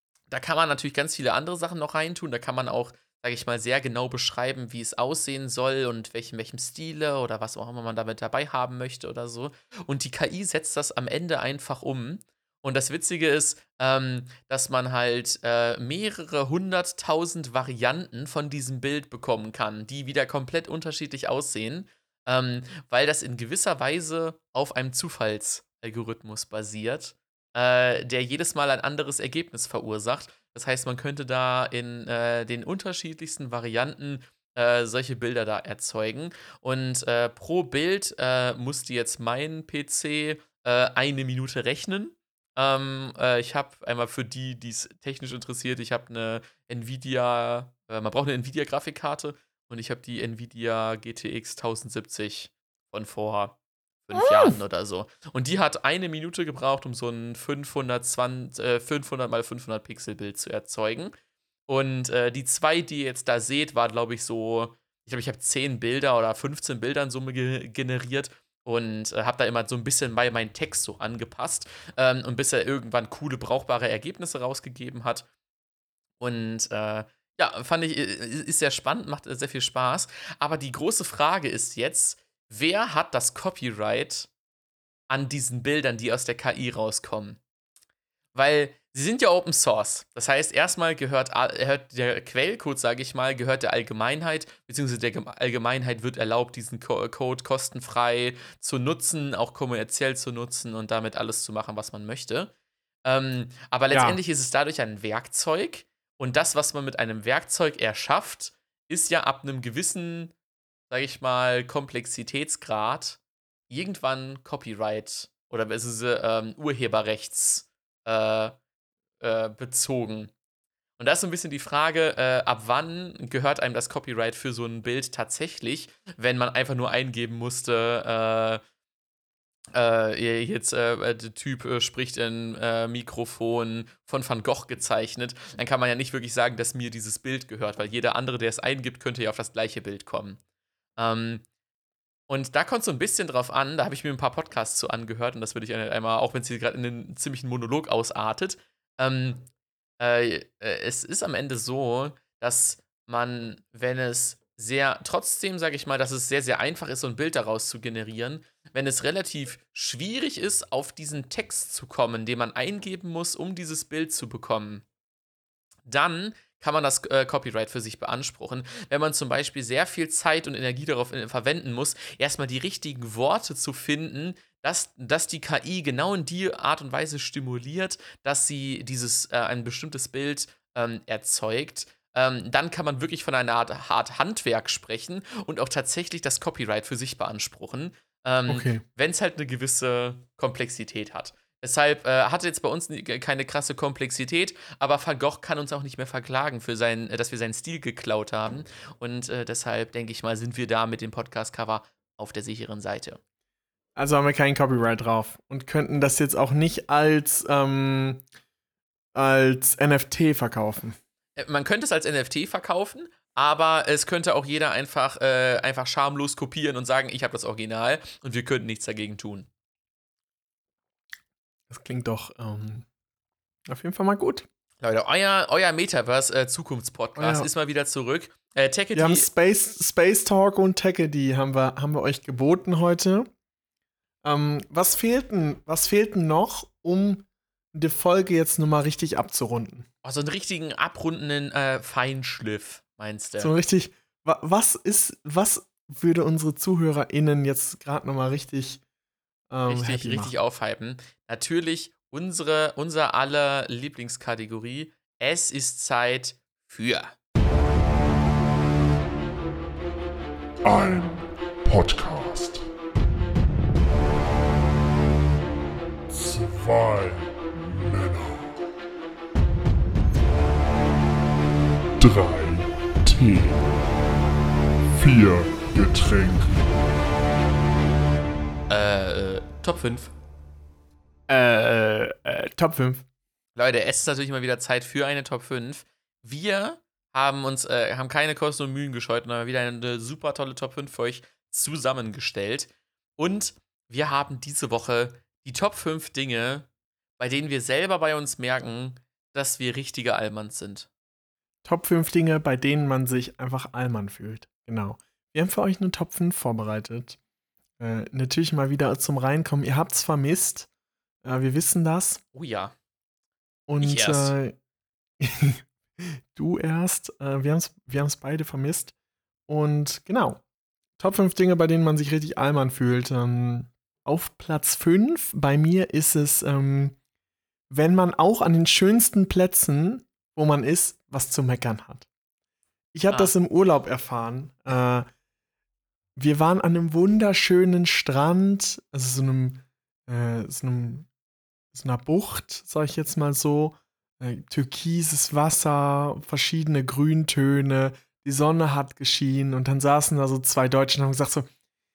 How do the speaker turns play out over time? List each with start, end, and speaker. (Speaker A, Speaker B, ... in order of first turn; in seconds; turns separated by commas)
Speaker A: 0.3-61.1, Speaker A: 61.7-75.2, Speaker A: 76.2-84.3, Speaker A: 85.1-87.4, Speaker A: 88.3-102.5, Speaker A: 103.0-110.3, Speaker B: 103.9-104.2, Speaker A: 110.9-113.2, Speaker A: 113.7-118.5, Speaker A: 119.2-120.3, Speaker A: 121.0-128.6, Speaker A: 129.7-140.4, Speaker A: 141.0-141.4, Speaker A: 142.3-149.5, Speaker A: 150.0-164.8, Speaker A: 165.8-203.2, Speaker B: 188.5-188.8, Speaker B: 203.9-208.2, Speaker B: 209.1-210.9, Speaker A: 211.4-219.5, Speaker B: 221.7-222.8, Speaker B: 223.7-224.4, Speaker A: 224.8-229.3, Speaker B: 227.2-227.5, Speaker B: 228.9-233.3, Speaker B: 234.2-239.8, Speaker A: 240.0-243.5, Speaker B: 243.4-248.8, Speaker B: 249.5-250.3, Speaker A: 249.7-257.1, Speaker C: 260.6-262.6, Speaker C: 266.1-268.5, Speaker C: 272.0-273.7, Speaker C: 274.9-276.7, Speaker A: 278.7-280.1, Speaker B: 281.3-283.0, Speaker A: 283.6-296.7, Speaker A: 297.2-300.9, Speaker B: 301.6-307.2, Speaker B: 307.8-310.7, Speaker B: 311.2-312.2, Speaker A: 312.3-312.7, Speaker B: 313.7-314.5, Speaker A: 313.8-314.4, Speaker B: 315.2-318.9, Speaker B: 319.5-320.4, Speaker B: 321.0-327.0, Speaker B: 327.7-332.1, Speaker B: 332.9-335.1, Speaker B: 336.2-341.1, Speaker B: 341.7-351.5